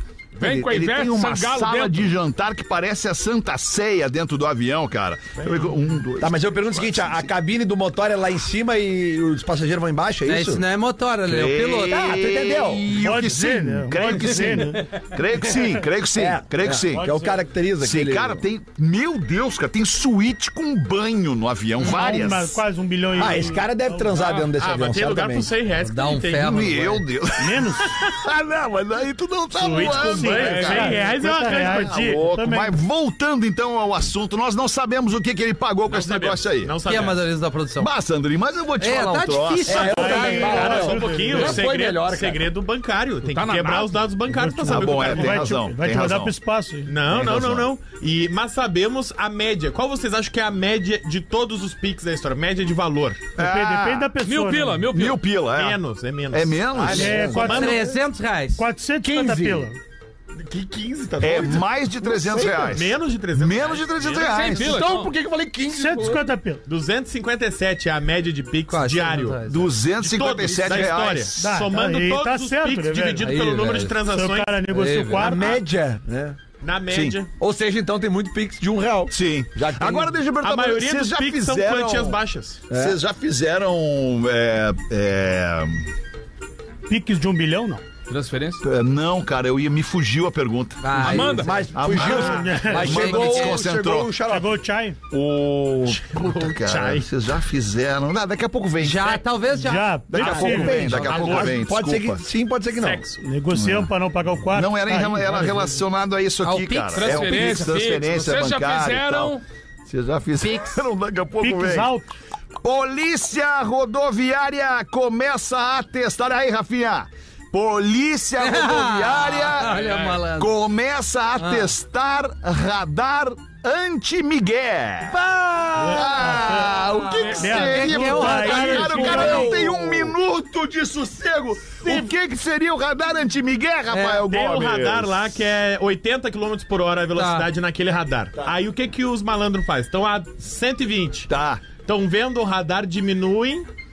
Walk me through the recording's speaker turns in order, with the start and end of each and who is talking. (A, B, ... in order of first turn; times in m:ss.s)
0:00.4-0:07.3 A
0:00.4-0:02.1 B
0:06.2-0:10.6 C
0:10.2-0:12.2 D
0:11.2-0:17.1 A
0:11.9-0:12.9 C
0:12.9-0:14.9 E
0:16.1-0:18.4 C
0:16.9-0:17.4 E
0:17.8-0:22.6 A
0:21.8-0:24.2 E
0:23.1-0:25.5 C
0:24.4-0:26.9 F
0:25.8-0:27.0 D
0:26.4-0:31.0 A
0:27.4-0:27.9 E
0:29.6-0:32.8 E
0:29.7-0:32.2 F
0:31.5-0:36.8 A
0:35.9-0:37.3 F
0:36.8-0:37.9 D
0:37.8-0:40.3 A
0:38.8-0:40.9 D
0:39.6-0:42.5 C
0:39.8-0:41.7 E
0:40.4-0:45.5 F
0:43.3-0:44.0 B
0:44.3-0:46.9 E
0:44.7-0:46.3 A
0:46.8-0:53.3 F
0:47.1-0:47.6 A
0:53.4-0:54.1 A
0:53.4-0:54.9 E
0:54.2-0:55.2 B
0:54.9-0:57.4 A
0:55.5-0:57.9 F
0:56.7-0:57.7 C
0:56.9-0:57.9 E
0:57.4-0:58.6 D
0:58.6-0:59.8 E
0:59.0-0:59.7 C
1:00.4-1:01.7 F
1:01.2-1:04.9 A
1:02.0-1:02.8 C
1:02.5-1:04.8 F
1:04.2-1:05.1 B
1:04.6-1:06.2 C
1:05.6-1:06.6 E
1:06.6-1:09.4 F
1:08.7-1:09.7 D
1:09.4-1:11.6 A
1:10.0-1:14.7 F
1:11.4-1:13.4 E
1:13.2-1:14.0 D
1:14.0-1:15.6 E
1:14.7-1:15.3 D
1:15.2-1:16.4 C
1:16.6-1:17.3 F
1:16.9-1:17.2 A
1:17.4-1:20.2 C
1:19.1-1:22.2 A
1:20.4-1:22.6 F
1:22.7-1:23.0 C
1:22.7-1:25.8 A
1:26.9-1:27.8 E
1:28.1-1:28.6 B
1:28.6-1:34.1 A
1:30.8-1:31.6 D
1:31.0-1:31.6 B
1:31.4-1:34.5 C
1:31.9-1:33.0 E
1:32.0-1:32.6 F
1:32.7-1:33.6 D
1:34.2-1:35.0 E
1:35.1-1:39.2 A
1:36.0-1:37.1 F
1:38.8-1:39.9 D
1:39.5-1:40.9 E
1:40.1-1:42.2 A
1:40.1-1:43.0 C
1:40.3-1:41.6 F
1:42.7-1:43.2 F
1:43.2-1:45.8 E
1:43.5-1:43.9 A
1:44.5-1:49.3 A
1:46.4-1:47.6 D
1:46.9-1:49.4 B
1:49.9-1:51.9 A
1:50.4-1:50.8 D
1:51.4-1:52.1 E
1:52.6-2:05.2 A
1:58.4-2:00.5 D
1:59.6-2:00.2 B
2:01.4-2:01.7 D
2:05.0-2:06.6 C
2:05.8-2:06.7 E
2:05.8-2:15.2 A
2:07.2-2:07.7 B
2:07.3-2:09.6 E
2:07.4-2:09.6 D
2:09.3-2:10.1 C
2:13.9-2:14.2 D
2:14.3-2:23.7 F
2:17.1-2:17.5 D
2:21.3-2:21.6 A